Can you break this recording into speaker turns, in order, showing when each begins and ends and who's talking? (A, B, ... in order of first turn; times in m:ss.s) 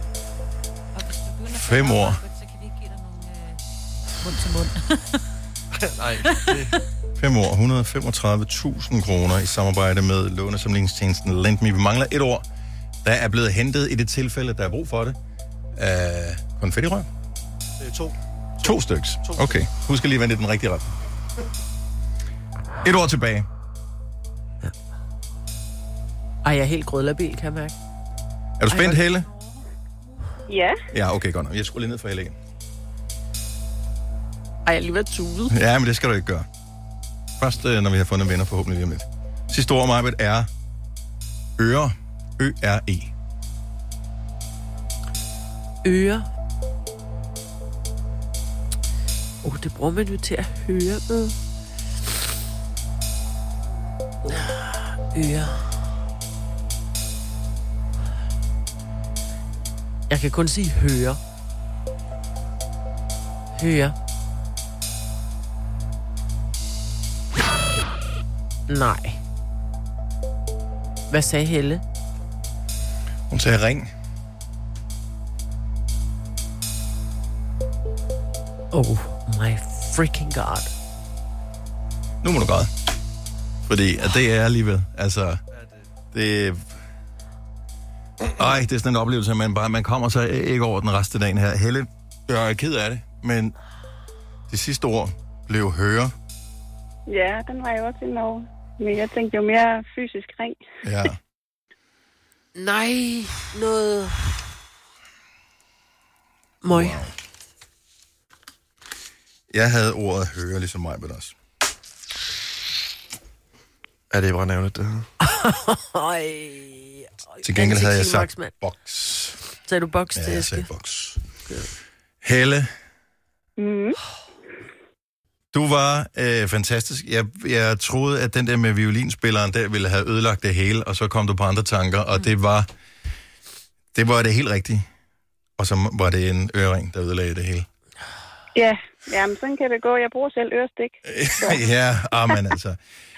0:00.9-0:03.6 A
0:01.5-0:02.2 B
0:04.2-0:05.2 A
0:05.7-0:06.7 C
0:07.2-0:12.4 B
0:13.0-0:15.2 B
0:15.7-0:17.1 B
0:17.8-0:18.7 C
0:18.6-0:20.9 B
0:19.2-0:19.5 C
0:22.8-0:23.5 B
0:26.4-0:27.7 D
0:28.6-0:29.3 B
0:28.7-0:29.0 D
0:30.5-0:30.8 E
0:30.9-0:32.4 B
0:34.6-0:35.5 D
0:35.5-0:36.4 B
0:37.4-0:40.5 B
0:41.6-0:43.1 B
0:45.8-0:46.2 D
0:49.4-0:51.4 D
0:54.2-0:55.7 D
1:00.1-1:01.2 D
1:03.6-1:03.9 D
1:08.7-1:09.2 D
1:11.1-1:11.8 D
1:13.3-1:13.9 B
1:18.7-1:20.7 D
1:22.2-1:22.7 B
1:23.7-1:25.4 B
1:26.1-1:26.7 B
1:28.4-1:33.5 B
1:34.5-1:36.1 B
1:37.1-1:40.6 E
1:40.8-1:41.2 B
1:42.5-1:44.3 D
1:46.6-1:47.0 D
1:46.7-1:47.1 B
1:49.5-1:51.4 B
1:54.1-1:55.1 C
1:55.2-1:58.5 D
1:57.4-1:59.4 B
1:59.6-2:00.7 D
2:00.1-2:01.2 B
2:02.2-2:02.7 B
2:03.6-2:04.0 E
2:05.5-2:12.7 B
2:13.9-2:14.8 B
2:15.6-2:17.6 B
2:18.5-2:21.6 E
2:21.0-2:22.8 B